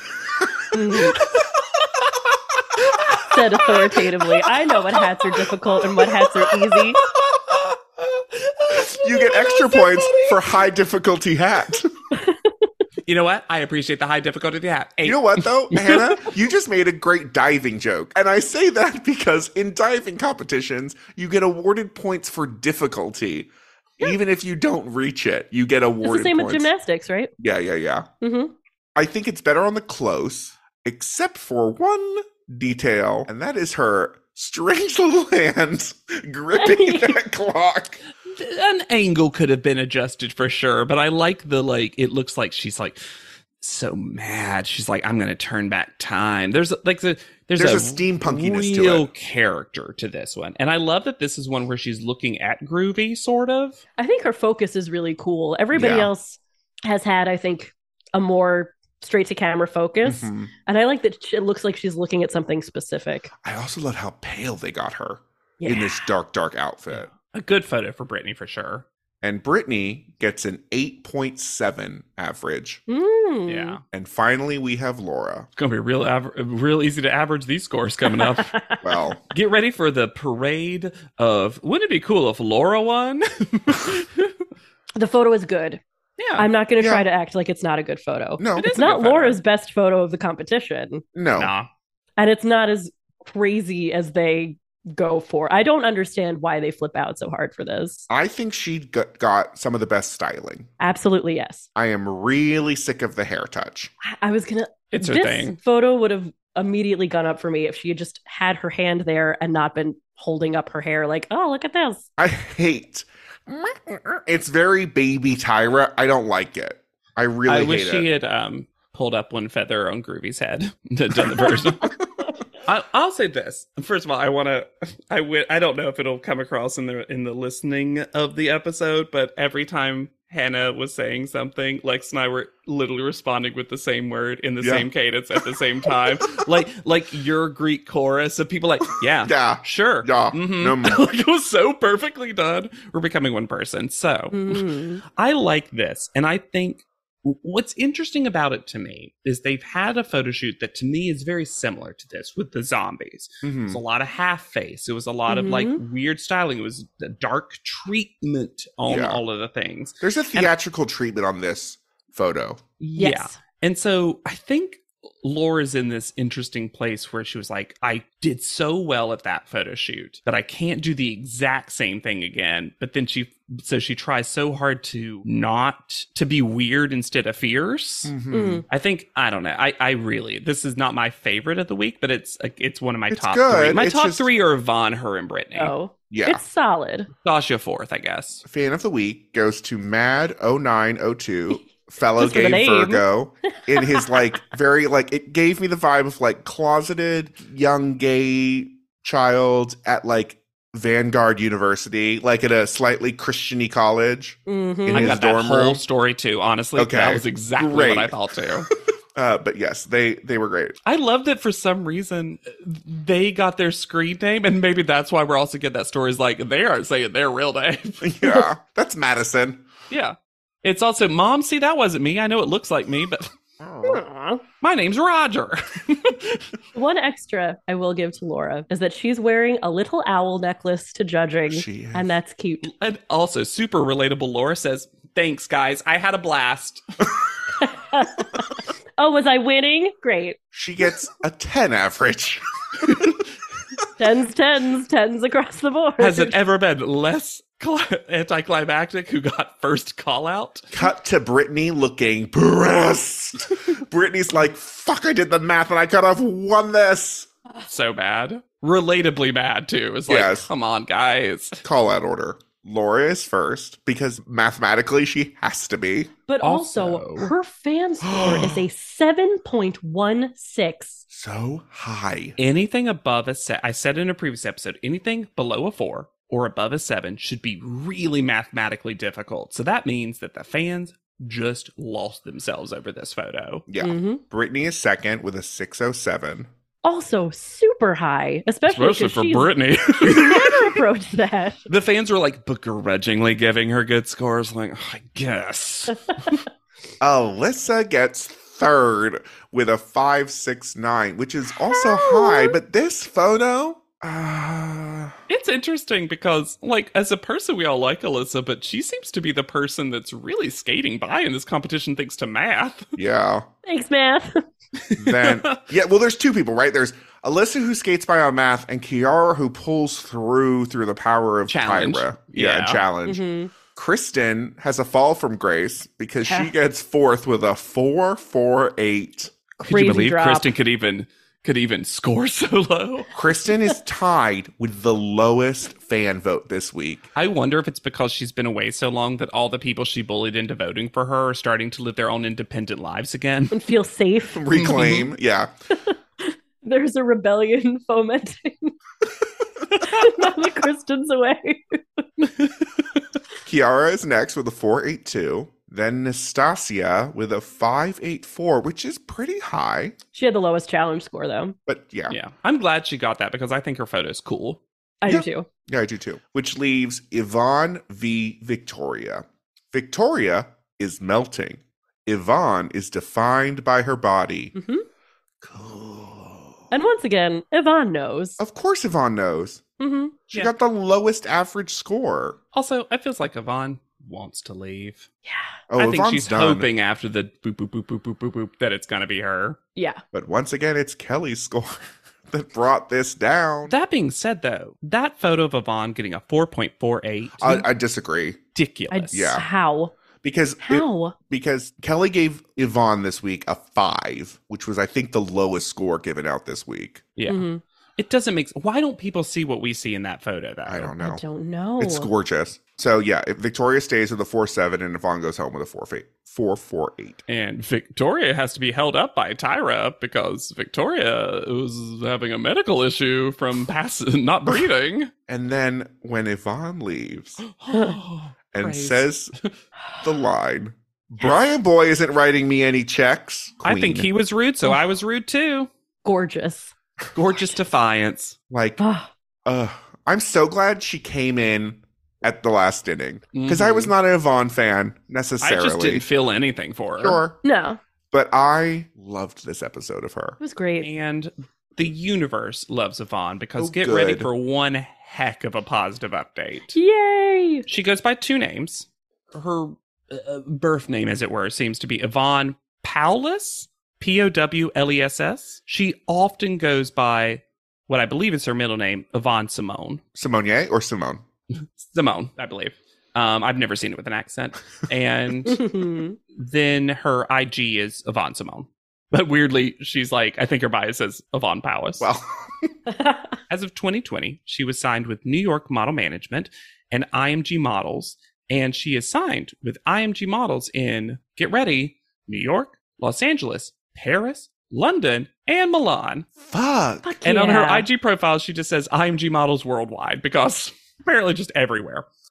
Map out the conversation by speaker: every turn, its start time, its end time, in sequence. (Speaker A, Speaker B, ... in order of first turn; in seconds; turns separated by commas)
Speaker A: 0.7-1.2, Speaker B: 1.1-10.6, Speaker A: 3.3-7.0, Speaker C: 8.8-11.9, Speaker B: 13.1-16.3, Speaker C: 15.0-26.7, Speaker A: 26.0-27.3, Speaker C: 27.4-28.1, Speaker A: 28.2-28.5, Speaker C: 29.0-38.0, Speaker A: 36.5-37.2, Speaker B: 38.2-43.0, Speaker B: 43.6-53.8, Speaker C: 47.6-49.1, Speaker A: 54.0-63.3, Speaker C: 55.7-56.1, Speaker C: 60.0-60.5, Speaker C: 63.4-67.1, Speaker A: 65.6-66.1, Speaker B: 66.9-68.9, Speaker C: 69.2-72.8, Speaker A: 72.9-73.8, Speaker B: 73.5-73.8, Speaker C: 73.9-75.5, Speaker B: 75.6-78.6, Speaker A: 78.0-79.0, Speaker C: 78.8-79.2, Speaker B: 79.3-84.5, Speaker A: 85.0-85.8, Speaker B: 86.2-86.5, Speaker A: 86.4-91.0, Speaker C: 86.8-87.0, Speaker C: 88.4-88.8, Speaker B: 88.6-89.4, Speaker C: 91.2-91.5, Speaker B: 91.4-91.7, Speaker A: 92.2-98.1, Speaker C: 98.1-100.7, Speaker A: 100.8-101.7, Speaker C: 101.8-103.9, Speaker A: 104.0-112.0, Speaker B: 104.9-105.6, Speaker C: 112.2-118.1, Speaker B: 117.5-121.9, Speaker B: 122.6-160.5, Speaker C: 134.6-134.9, Speaker C: 135.9-136.4, Speaker C: 139.2-141.0, Speaker A: 144.3-145.0, Speaker C: 153.4-153.8, Speaker A: 155.3-155.8, Speaker C: 158.9-159.2, Speaker C: 160.0-162.6, Speaker B: 162.8-178.1, Speaker A: 163.0-163.4, Speaker C: 178.1-178.6, Speaker A: 178.3-178.7, Speaker B: 178.7-185.7, Speaker C: 183.1-184.3, Speaker A: 185.6-187.1, Speaker C: 186.1-186.4, Speaker B: 187.2-188.4, Speaker C: 188.4-205.8, Speaker A: 192.2-193.1, Speaker A: 204.5-205.2, Speaker B: 204.9-208.7, Speaker C: 206.8-208.5, Speaker C: 209.2-210.8, Speaker B: 210.9-218.2, Speaker C: 218.0-219.7, Speaker B: 219.9-223.3, Speaker C: 223.6-224.0, Speaker A: 223.8-224.4, Speaker B: 224.6-226.4, Speaker A: 226.8-232.7, Speaker C: 231.5-232.1, Speaker B: 232.6-236.8, Speaker A: 237.6-240.4, Speaker C: 240.5-243.2, Speaker A: 244.0-246.4, Speaker B: 246.0-250.7, Speaker C: 250.7-257.3, Speaker B: 257.7-261.6, Speaker C: 260.1-260.5, Speaker C: 261.6-266.1, Speaker A: 266.3-271.0, Speaker B: 266.4-267.3, Speaker C: 268.0-268.7, Speaker C: 271.1-272.4, Speaker B: 272.4-283.6, Speaker C: 283.7-286.5, Speaker A: 283.8-284.2, Speaker A: 286.8-291.7, Speaker B: 288.7-290.8, Speaker B: 291.7-296.4, Speaker C: 297.0-305.2, Speaker A: 301.7-302.6, Speaker B: 305.3-313.0, Speaker C: 313.0-313.5, Speaker A: 313.6-314.4, Speaker B: 314.8-315.6, Speaker C: 315.0-329.3, Speaker B: 321.5-322.8, Speaker A: 323.1-323.5, Speaker A: 326.2-326.5, Speaker A: 329.6-330.5, Speaker B: 329.7-333.1, Speaker C: 333.1-337.1, Speaker B: 337.1-343.6, Speaker A: 343.5-344.6, Speaker C: 344.3-345.5, Speaker B: 344.5-345.1, Speaker A: 345.9-348.8, Speaker B: 349.8-350.2, Speaker A: 349.8-352.0, Speaker B: 352.2-353.0, Speaker C: 353.4-360.0, Speaker A: 360.1-361.6, Speaker C: 361.7-362.2, Speaker B: 362.1-364.6, Speaker A: 365.0-365.5, Speaker C: 365.1-374.5, Speaker A: 374.6-374.9, Speaker C: 375.4-376.7, Speaker A: 376.7-378.4, Speaker C: 378.4-379.6, Speaker A: 379.8-380.1, Speaker C: 380.3-382.4, Speaker B: 382.5-385.1, Speaker C: 385.7-386.7, Speaker B: 385.8-389.6, Speaker A: 389.8-390.0, Speaker C: 390.1-393.8, Speaker B: 393.7-397.7, Speaker C: 397.4-398.4, Speaker B: 398.6-399.3, Speaker A: 398.9-399.9, Speaker C: 399.1-399.4, Speaker C: 400.2-407.0, Speaker A: 400.6-401.1, Speaker B: 407.2-407.4, Speaker A: 407.3-407.6, Speaker B: 408.0-410.9, Speaker C: 410.7-411.2, Speaker A: 411.0-412.1, Speaker C: 411.8-417.2, Speaker B: 417.3-425.1, Speaker C: 425.3-427.4, Speaker B: 427.4-429.5, Speaker C: 428.5-429.4, Speaker C: 430.0-434.1, Speaker B: 433.6-435.7, Speaker A: 436.0-436.7, Speaker B: 437.1-438.4, Speaker C: 438.5-438.8, Speaker A: 438.8-439.1, Speaker C: 439.4-446.1, Speaker B: 443.3-443.9, Speaker B: 445.4-447.2, Speaker C: 447.0-447.4, Speaker A: 447.4-447.8, Speaker C: 448.1-450.4, Speaker A: 450.4-450.9, Speaker B: 450.8-456.8, Speaker C: 453.6-454.3, Speaker A: 456.8-457.7, Speaker B: 457.7-470.0, Speaker C: 470.1-471.2, Speaker B: 471.5-482.1, Speaker A: 475.5-476.2, Speaker C: 482.0-482.7, Speaker A: 482.9-483.2, Speaker B: 483.5-496.3, Speaker C: 496.4-497.2, Speaker A: 497.0-497.9, Speaker B: 497.2-502.1